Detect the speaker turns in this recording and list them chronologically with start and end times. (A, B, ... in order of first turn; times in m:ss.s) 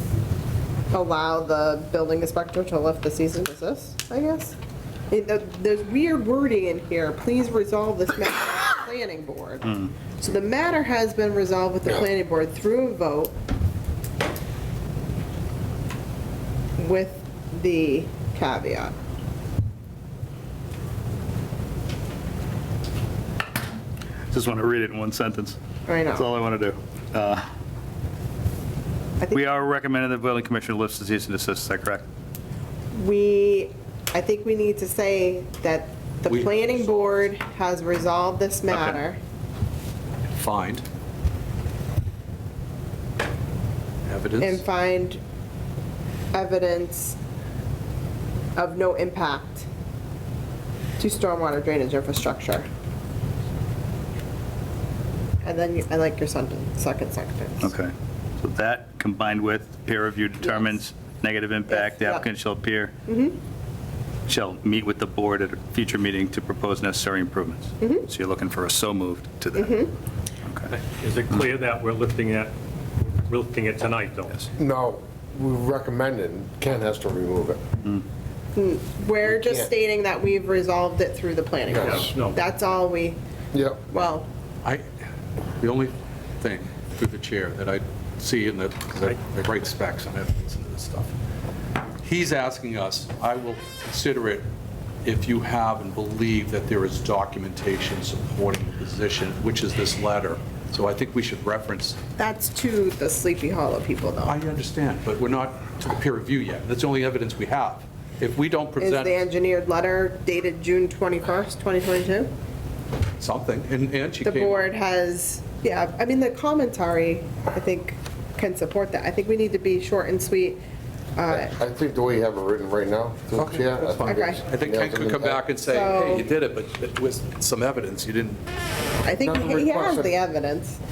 0:00.9-0:04.6 A
0:05.1-0:13.4 A
0:16.8-0:18.9 A
0:24.3-0:25.6 B
0:25.9-0:26.3 A
0:26.1-0:27.4 B
0:29.2-0:29.5 A
0:29.3-0:32.1 B
0:32.9-0:39.2 A
0:36.3-0:37.0 C
0:38.7-0:39.0 C
0:40.3-0:40.8 C
0:44.1-0:44.6 C
0:44.4-0:45.2 A
0:46.3-0:47.2 A
0:48.6-0:49.7 A
0:51.0-0:52.7 A
0:55.4-0:57.7 A
0:57.6-1:03.0 B
1:00.4-1:00.7 A
1:01.7-1:02.3 A
1:03.1-1:03.4 A
1:04.3-1:09.9 B
1:07.8-1:08.1 A
1:09.6-1:09.9 A
1:10.4-1:10.7 B
1:10.8-1:12.5 D
1:13.0-1:14.5 D
1:14.6-1:17.6 E
1:18.6-1:23.2 A
1:19.3-1:19.7 E
1:21.7-1:22.1 E
1:21.8-1:22.4 D
1:23.5-1:23.9 E
1:23.9-1:24.3 A
1:25.6-1:31.1 C
1:32.0-1:34.5 C
1:35.0-1:42.0 C
1:42.2-1:44.4 A
1:44.3-1:49.2 C
1:48.8-1:52.3 A
1:53.2-1:54.7 C
1:54.2-2:00.6 A
2:01.2-2:01.6 A
2:01.3-2:05.4 E
2:03.4-2:08.4 C
2:04.0-2:04.4 A
2:05.7-2:06.3 A
2:09.0-2:10.8 A
2:09.2-2:10.2 E